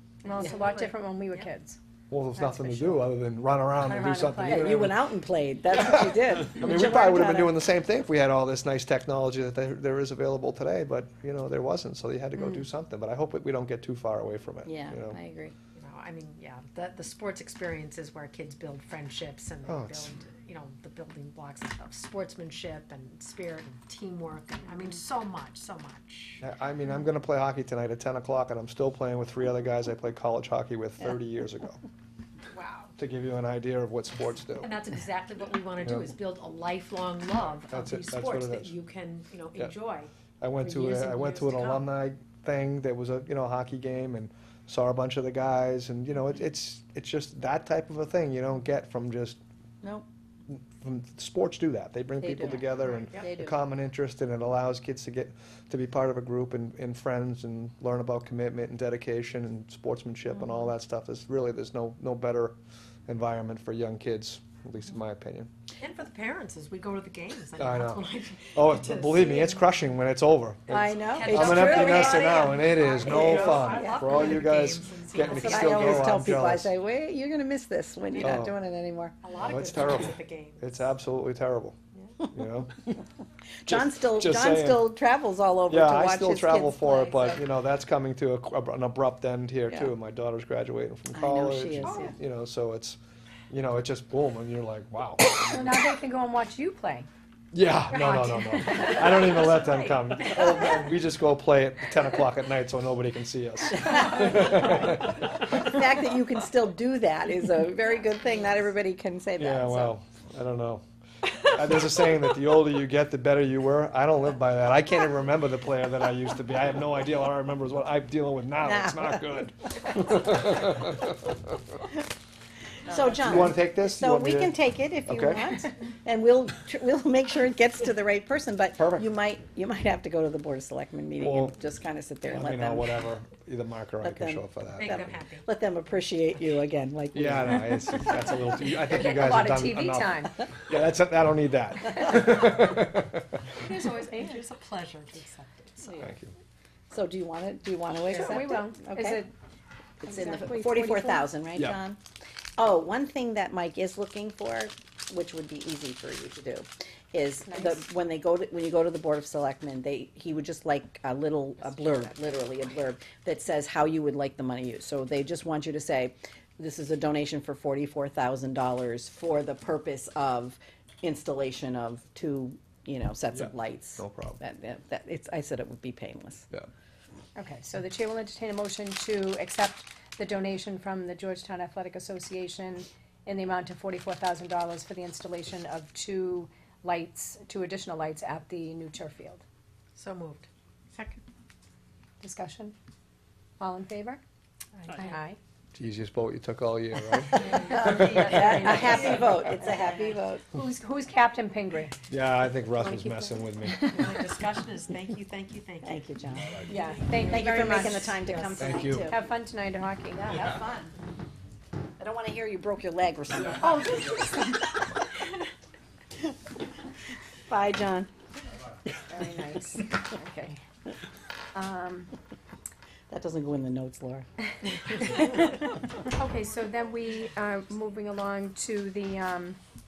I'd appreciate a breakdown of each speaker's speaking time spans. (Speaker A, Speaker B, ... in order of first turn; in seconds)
Speaker A: 0.2-1.8, 2.3-3.2, 3.7-4.7, 12.3-12.7, 32.5-32.9, 71.6-71.8, 73.2-74.3, 95.3-97.1, 97.9-99.5, 138.8-140.4, 143.6-144.4, 148.1-149.3, 150.0-151.3, 157.4-157.8, 177.3-189.4, 192.2-192.7, 193.6-194.2, 194.9-195.4, 197.4-199.8, 200.5-202.0, 202.7-204.3, 206.7-210.3, 219.1-220.6, 221.5-222.1, 224.9-229.6
Speaker B: 0.2-1.4, 15.7-26.4, 34.5-41.9, 52.8-53.2, 65.8-69.6, 71.1-76.2, 79.2-80.6, 98.6-100.8, 134.8-135.5, 143.6-146.1, 189.9-191.2, 194.8-195.2, 197.3-200.1, 203.9-206.1, 206.6-207.5
Speaker C: 2.1-5.0, 6.0-15.2, 19.6-20.1, 26.4-31.8, 33.0-34.7, 35.8-36.1, 37.7-38.7, 40.4-49.4, 50.5-62.5, 63.1-65.5, 67.6-76.7, 78.2-78.6, 79.4-81.8, 82.3-82.8, 83.7-84.9, 85.7-93.0, 93.5-95.6, 97.5-105.2, 109.4-110.8, 111.4-121.3, 123.2-125.5, 131.2-131.6, 132.3-135.2, 137.1-143.3, 146.0-146.3, 151.5-151.8, 173.3-174.4, 195.7-198.2, 202.1-204.2, 208.5-209.1
Speaker D: 4.4-7.6, 14.6-15.5, 52.2-53.6, 70.7-74.2, 75.2-79.2, 83.6-87.4, 91.1-92.2, 104.2-109.9, 118.6-120.5, 122.8-133.1, 134.0-138.3, 146.9-149.3, 150.0-152.0, 152.6-176.5, 197.2-200.4, 205.8-206.6, 207.2-209.3, 210.1-210.9, 212.0-215.1, 217.4-218.1, 223.1-224.2